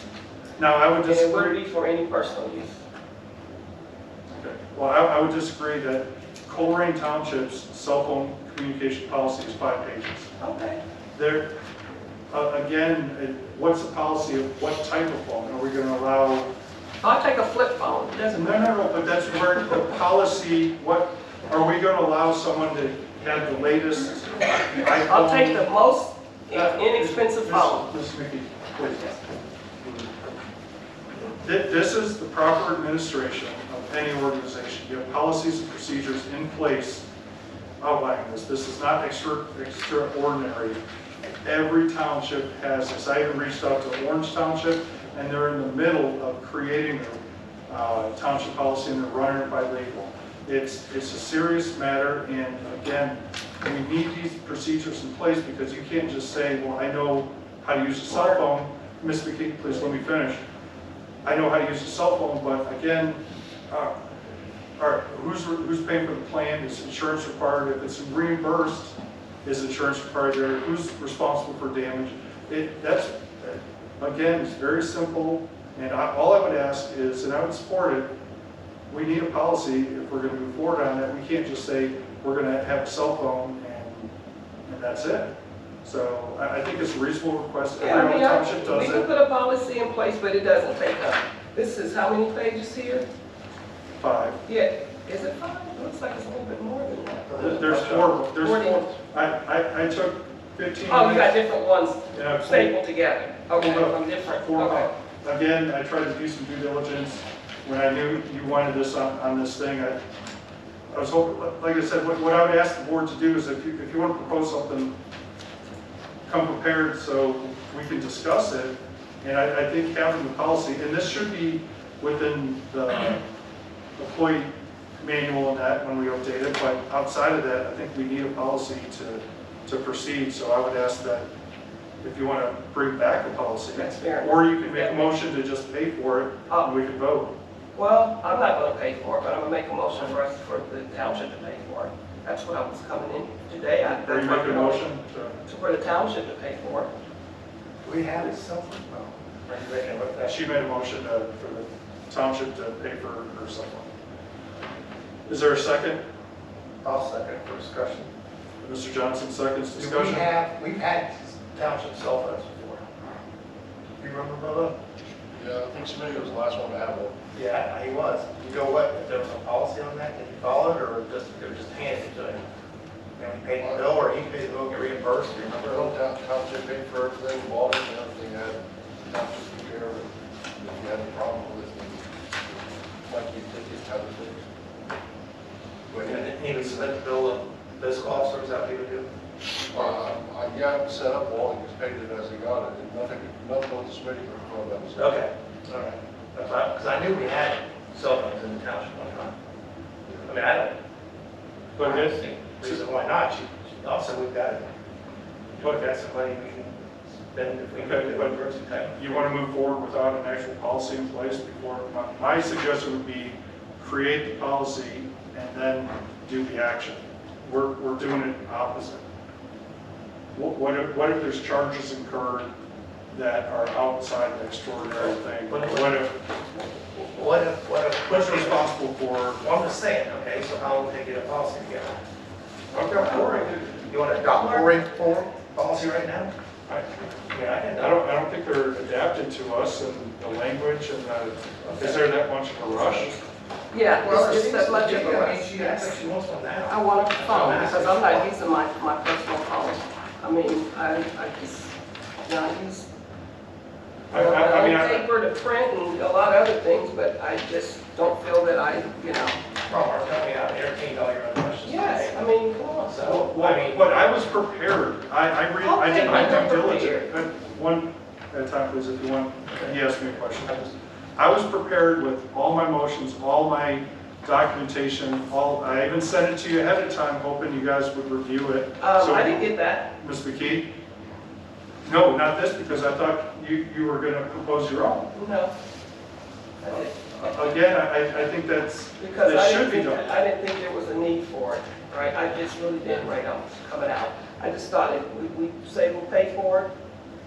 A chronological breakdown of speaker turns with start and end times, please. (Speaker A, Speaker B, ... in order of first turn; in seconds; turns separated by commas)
Speaker A: 0.6-1.6, Speaker B: 1.0-2.8, Speaker A: 4.3-10.3, Speaker B: 10.4-10.8, Speaker A: 11.1-11.5, Speaker A: 12.3-16.5, Speaker B: 17.0-18.8, Speaker A: 18.3-25.7, Speaker B: 25.1-27.9, Speaker A: 26.5-29.1, Speaker B: 28.9-29.2, Speaker A: 29.8-30.2, Speaker A: 31.4-37.0, Speaker A: 37.8-40.8, Speaker A: 41.4-60.4, Speaker B: 58.1-58.4, Speaker A: 61.2-64.0, Speaker A: 64.8-78.1, Speaker A: 78.9-84.1, Speaker A: 84.7-85.3, Speaker A: 85.8-89.1, Speaker B: 87.8-93.1, Speaker A: 94.0-94.4, Speaker B: 94.5-98.9, Speaker A: 97.4-101.3, Speaker B: 100.9-104.9, Speaker A: 102.1-102.8, Speaker A: 103.5-110.0, Speaker A: 110.9-115.0, Speaker A: 116.3-123.2, Speaker A: 124.0-131.3, Speaker A: 132.0-137.3, Speaker B: 133.7-135.1, Speaker B: 137.8-144.9, Speaker A: 143.8-145.3, Speaker B: 145.4-146.9, Speaker C: 147.8-150.4, Speaker A: 150.2-153.9, Speaker A: 155.3-156.0, Speaker C: 156.8-158.1, Speaker A: 158.6-160.3, Speaker C: 159.8-162.8, Speaker C: 164.0-164.8, Speaker D: 165.3-167.2, Speaker C: 167.3-172.4, Speaker C: 173.2-175.9, Speaker D: 173.6-173.9, Speaker D: 175.6-184.5, Speaker C: 185.9-189.1, Speaker D: 189.7-195.2, Speaker C: 195.0-199.3, Speaker C: 200.2-200.8, Speaker C: 201.8-204.7, Speaker A: 201.8-202.8, Speaker C: 205.6-209.3, Speaker A: 207.8-208.4, Speaker A: 209.0-219.0, Speaker A: 220.3-222.5, Speaker A: 223.1-226.2, Speaker C: 225.5-226.1, Speaker C: 226.9-228.7, Speaker A: 228.1-229.4, Speaker C: 229.4-232.0, Speaker A: 232.7-233.8, Speaker C: 232.9-236.3, Speaker C: 237.3-238.0, Speaker A: 237.8-243.2, Speaker C: 241.7-242.1, Speaker B: 243.7-246.1, Speaker C: 243.9-248.3, Speaker B: 246.6-252.9, Speaker A: 254.1-255.1, Speaker B: 254.1-259.4, Speaker C: 259.7-263.9, Speaker B: 261.6-262.5, Speaker A: 263.0-270.6, Speaker B: 265.6-267.1, Speaker C: 270.4-270.7, Speaker A: 271.1-280.7, Speaker B: 278.8-279.9, Speaker A: 281.8-285.1, Speaker B: 285.1-285.5, Speaker B: 286.6-287.5, Speaker A: 286.7-290.1, Speaker B: 289.0-296.7